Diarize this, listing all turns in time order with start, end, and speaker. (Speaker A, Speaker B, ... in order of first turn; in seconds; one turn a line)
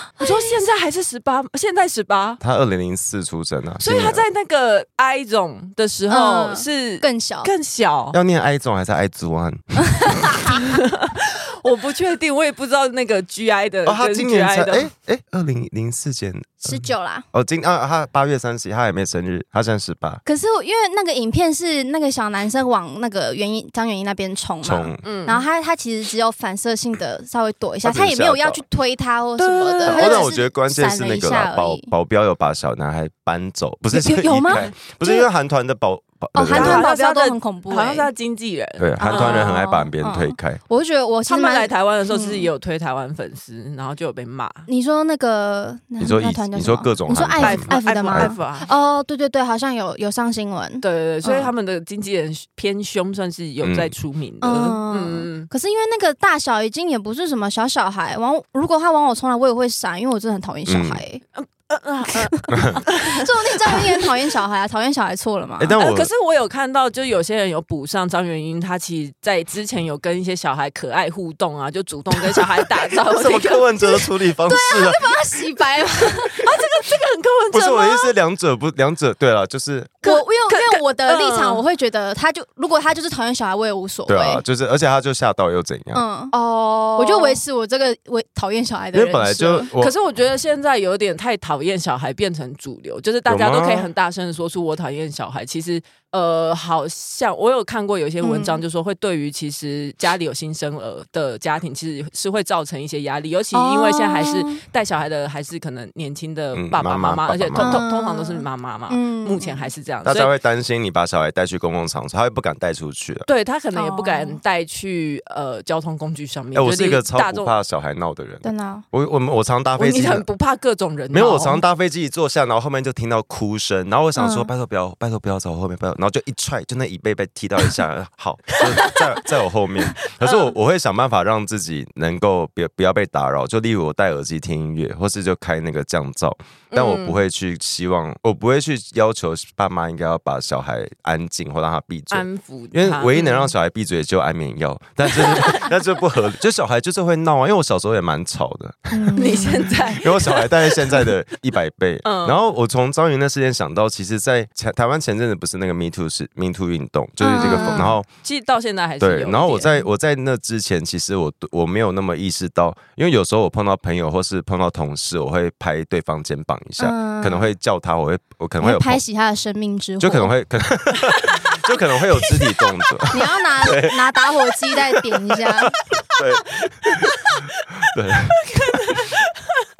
Speaker A: 0.2-0.5
Speaker B: 0.2-2.4
Speaker C: 2.4-4.2
Speaker B: 3.8-8.2
Speaker A: 6.1-7.5
Speaker C: 8.1-10.4
Speaker B: 10.5-14.9
Speaker C: 13.8-20.2
Speaker A: 16.6-17.3
Speaker A: 20.2-31.9
Speaker C: 24.6-25.1
Speaker B: 25.0-25.4
Speaker C: 27.8-28.6
Speaker B: 29.4-30.2
Speaker C: 29.8-36.8
Speaker A: 33.9-35.3
Speaker A: 36.3-38.1
Speaker B: 36.5-39.5
Speaker C: 38.8-40.6
Speaker A: 39.0-42.5
Speaker B: 41.2-44.7
Speaker A: 44.7-51.5
Speaker C: 46.0-48.3
Speaker B: 47.4-48.7
Speaker B: 50.8-55.5
Speaker C: 53.6-53.9
Speaker A: 54.4-61.2
Speaker C: 60.7-61.0
Speaker B: 61.3-64.0
Speaker A: 62.5-65.8
Speaker C: 65.6-66.1
Speaker B: 65.8-73.9
Speaker C: 73.1-75.1
Speaker A: 74.5-76.5
Speaker B: 76.1-77.9
Speaker C: 77.5-80.0
Speaker A: 77.8-78.1
Speaker B: 80.0-81.6
Speaker A: 80.0-84.5
Speaker C: 84.1-86.0
Speaker A: 85.9-86.3
Speaker B: 86.3-87.4
Speaker A: 87.0-89.7
Speaker C: 88.9-89.9
Speaker B: 89.8-110.3
Speaker C: 93.2-93.9
Speaker A: 98.2-98.6
Speaker A: 103.5-104.6
Speaker C: 106.5-107.8
Speaker A: 107.6-109.7
Speaker C: 110.0-113.3
Speaker B: 113.3-117.5
Speaker A: 113.7-114.4
Speaker C: 116.5-120.2
Speaker A: 118.4-118.8
Speaker B: 119.8-121.6
Speaker C: 121.1-158.1
Speaker A: 124.2-124.5
Speaker B: 129.9-130.5
Speaker B: 136.7-137.2
Speaker B: 142.1-143.5
Speaker B: 145.2-145.7
Speaker A: 148.9-149.7
Speaker B: 149.2-151.1
Speaker B: 152.0-152.4
Speaker A: 157.2-158.0
Speaker B: 157.3-159.8
Speaker C: 159.0-169.0
Speaker A: 166.8-167.5
Speaker A: 168.6-170.3
Speaker C: 170.0-177.2
Speaker B: 171.1-172.9
Speaker A: 173.1-175.7
Speaker B: 177.0-177.4
Speaker C: 177.9-179.0
Speaker B: 178.4-179.3